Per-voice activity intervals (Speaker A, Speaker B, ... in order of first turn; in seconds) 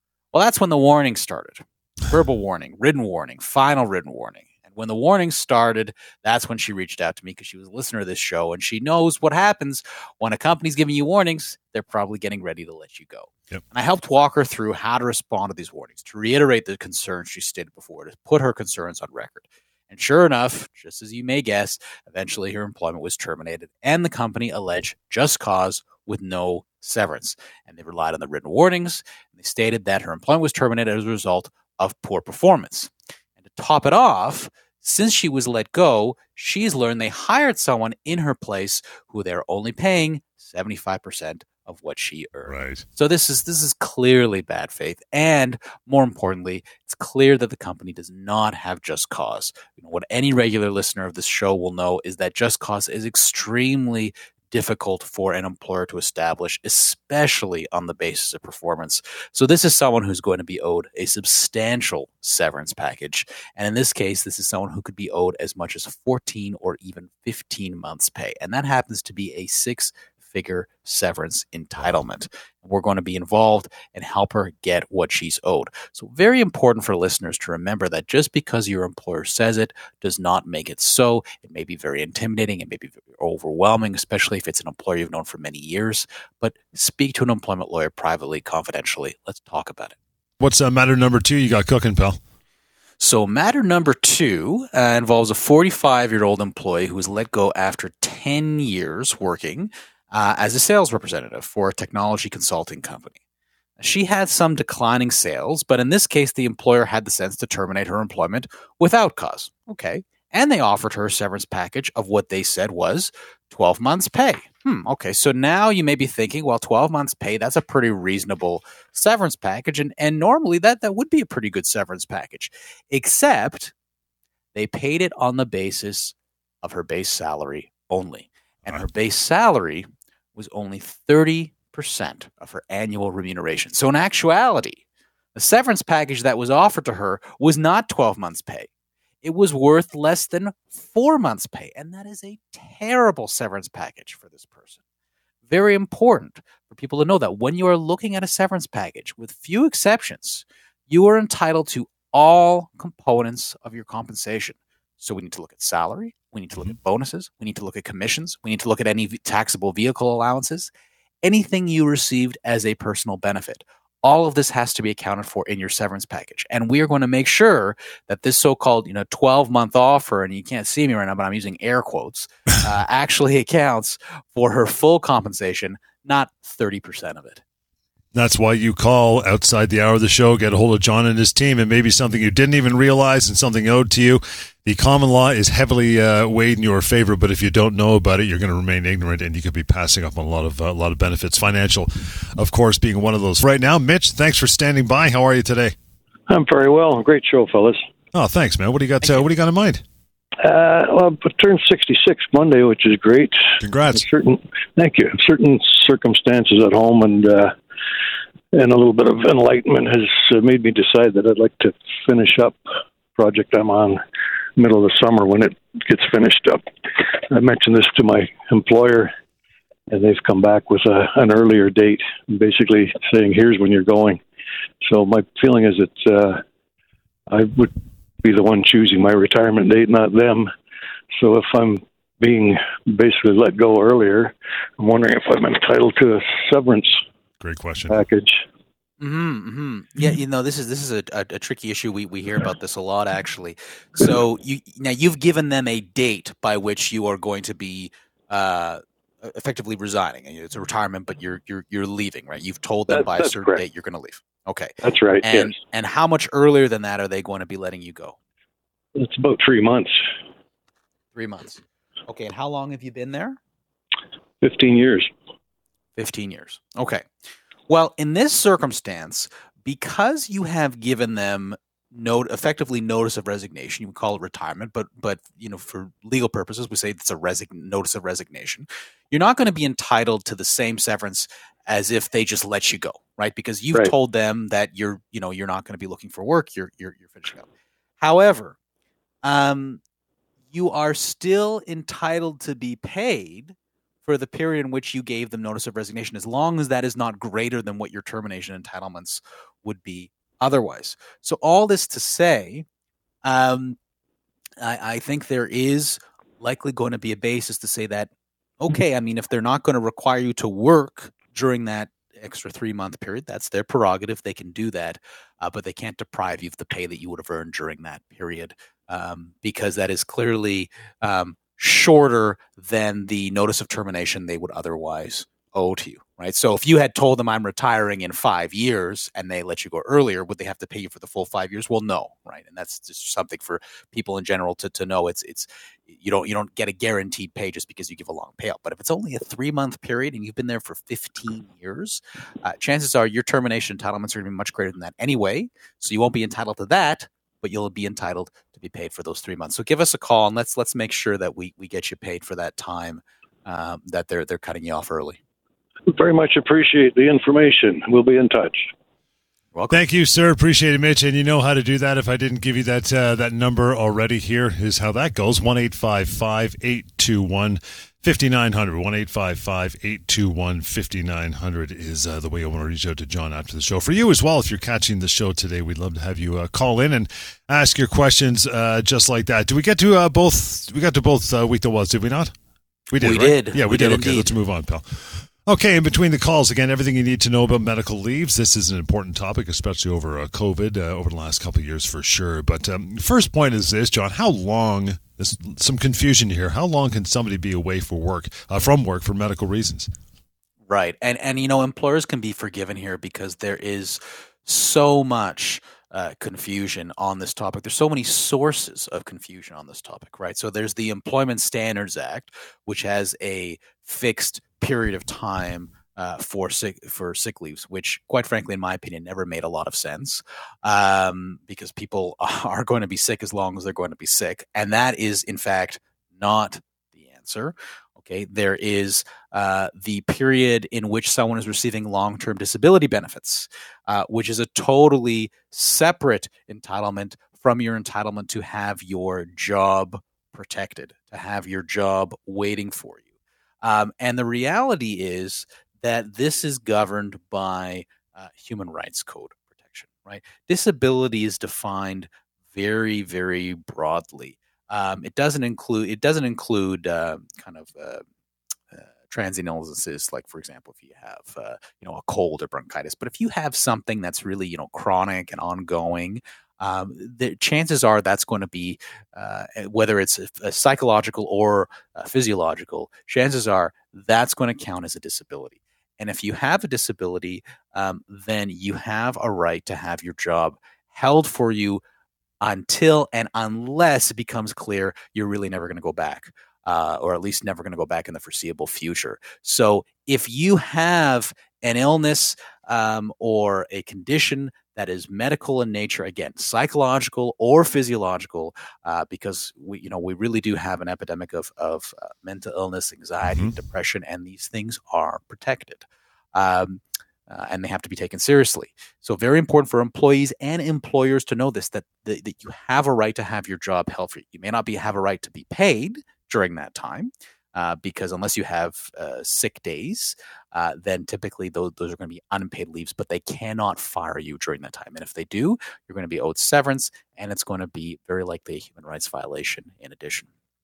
Speaker A: 0.3-90.0, 93.0-103.2, 103.8-123.7, 124.5-134.8, 135.3-138.7, 139.2-144.8, 145.5-160.7, 161.2-177.4, 239.0-258.2, 261.1-263.4, 265.9-267.0, 267.7-287.5, 288.0-288.6, 289.2-289.8, 290.5-302.6, 303.2-303.8, 304.6-308.1, 308.6-355.2, 359.5-359.8, 383.0-384.3, 400.7-443.1, 443.6-458.0, 458.7-481.8, 482.4-530.3
Speaker B: 42.5-42.8, 90.4-92.2, 178.1-195.7, 198.1-199.8, 203.6-204.1, 237.4-238.0, 359.7-382.3, 382.9-399.9
Speaker C: 196.3-197.8, 200.4-207.5, 208.5-212.6, 213.1-214.0, 214.6-219.1, 219.9-224.2, 224.8-226.4, 227.3-230.5, 231.2-237.0, 237.9-238.4, 252.9-253.6, 254.8-255.6, 258.9-260.0, 264.4-265.1, 355.9-358.7